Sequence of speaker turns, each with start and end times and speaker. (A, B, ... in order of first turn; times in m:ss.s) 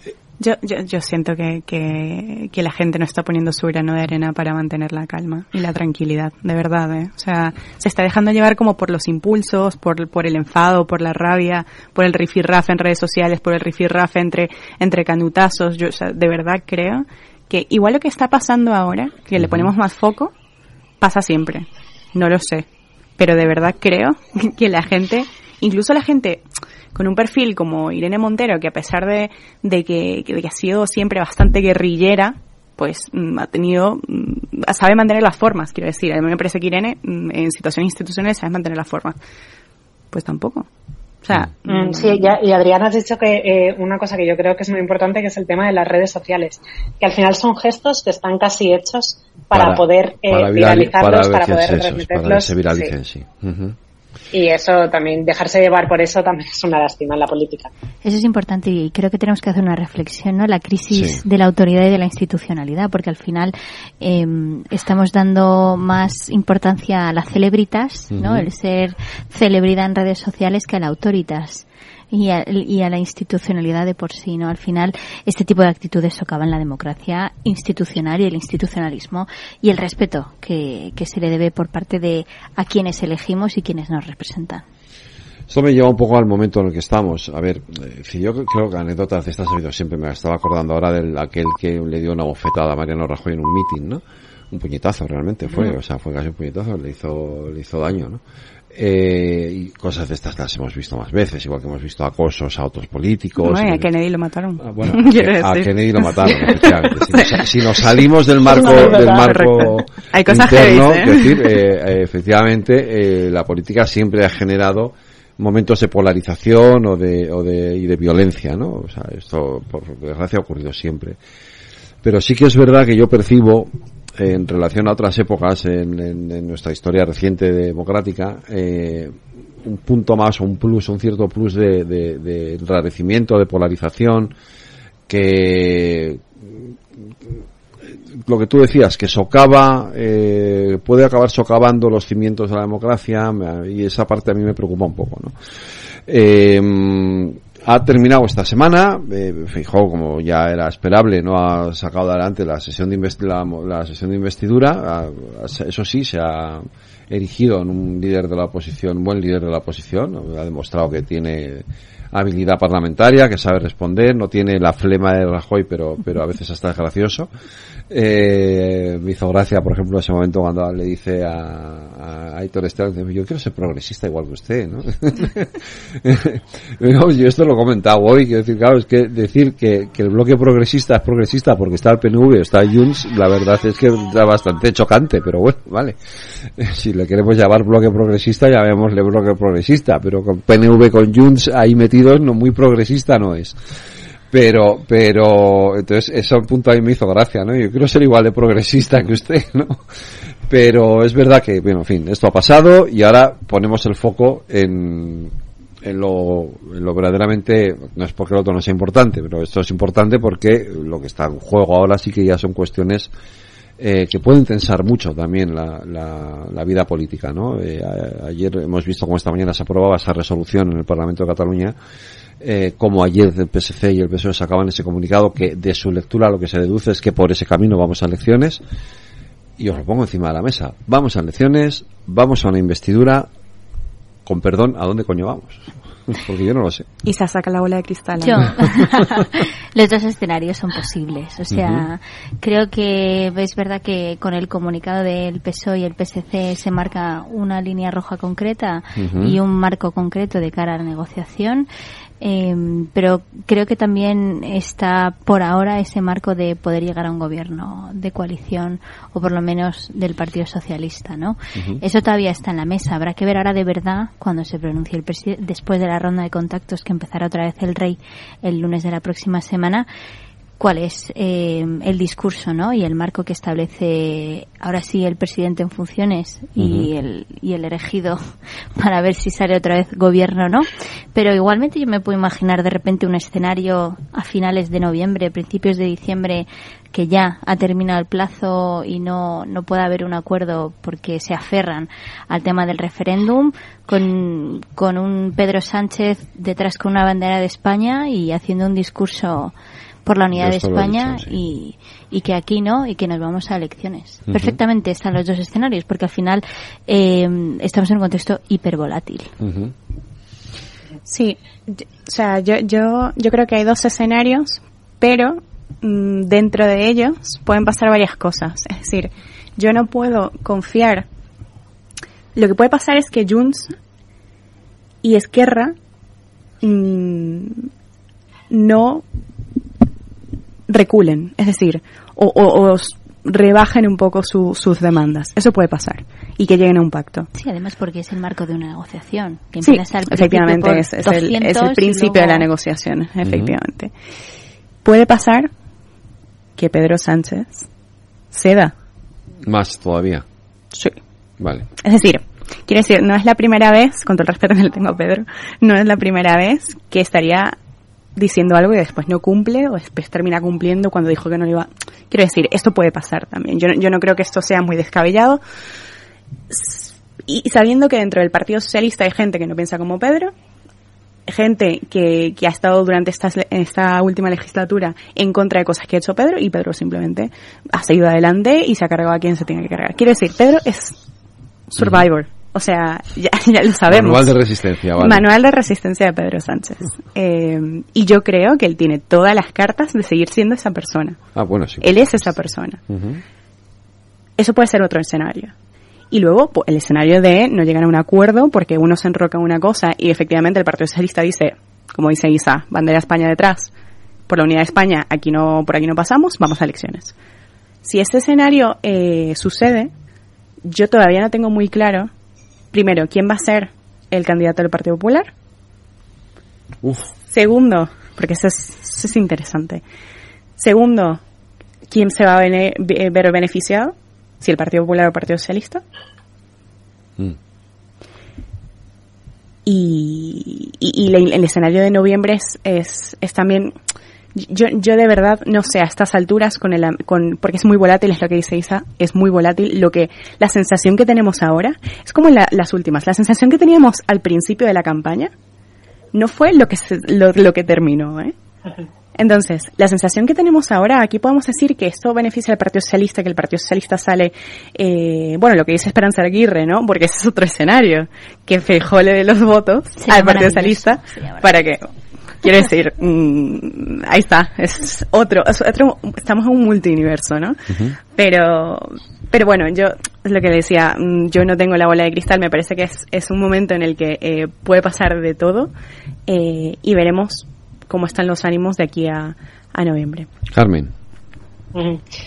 0:00.4-0:20.3 A
0:19.4-0:19.7 B
0:21.0-0:22.7 A
0:23.2-0:39.2 A
0:40.1-0:40.7 A
0:41.2-0:42.4 A
0:41.7-0:52.9 C
0:49.5-0:53.8 B
0:54.3-0:57.7 C
0:58.0-1:24.6 D
1:00.9-1:01.2 B
1:08.1-1:08.5 B
1:25.5-1:38.2 B
1:35.5-1:35.7 A
1:38.7-1:43.9 B
1:43.4-1:47.4 A
1:44.6-2:01.2 B
1:48.4-1:51.5 A
1:48.5-1:49.4 C
2:02.0-2:14.3 B
2:15.1-2:16.7 B
2:18.2-2:25.4 B
2:26.1-2:47.3 B
2:47.9-3:06.0 B
3:06.6-3:13.6 B
3:14.3-3:19.8 B
3:20.5-3:33.1 B
3:33.8-3:41.8 B
3:42.4-3:48.6 B
3:49.6-3:53.3 B
3:54.2-3:56.9 B
3:57.0-3:58.4 A
3:58.2-4:11.7 D
4:01.5-4:01.9 B
4:09.0-4:09.4 B
4:12.2-4:29.9 D
4:21.6-4:21.8 B
4:30.6-4:38.2 D
4:36.6-4:36.9 B
4:38.8-5:09.3 D
5:00.3-5:01.4 B
5:04.3-5:04.6 B
5:09.4-5:09.7 B
5:11.1-5:21.1 A
5:22.4-5:23.7 A
5:25.0-5:25.8 A
5:26.6-5:27.7 A
5:28.5-5:29.0 A
5:30.7-5:37.3 A
5:37.4-5:42.5 D
5:39.6-5:43.9 A
5:43.2-5:43.6 B
5:44.8-5:45.5 A
5:46.6-5:47.7 A
5:48.3-5:48.7 A
5:49.4-5:50.2 B
5:51.4-5:51.7 B
5:51.8-5:57.6 A
5:58.2-6:05.4 A
6:06.5-6:10.3 A
6:11.3-6:21.0 A
6:21.7-6:24.4 A
6:21.8-6:22.1 B
6:23.9-6:25.3 B
6:25.0-6:31.2 A
6:31.4-6:32.4 B
6:31.8-6:32.8 A
6:32.9-6:33.2 B
6:34.4-6:35.5 A
6:36.1-6:43.7 A
6:44.3-6:47.1 A
6:47.8-6:49.9 A
6:50.6-6:52.1 A
6:52.7-6:55.3 A
6:56.8-6:57.1 B
6:57.3-6:59.8 A
7:00.6-7:01.2 A
7:01.9-7:05.8 A
7:09.7-7:13.8 A
7:14.4-7:25.3 A
7:26.1-7:28.3 A
7:29.2-7:41.8 A
7:40.0-7:41.7 D
7:42.4-7:47.6 A
7:47.7-7:48.0 B
7:48.1-7:55.7 A
7:56.3-8:00.3 A
8:00.5-8:00.9 B
8:01.7-8:02.0 C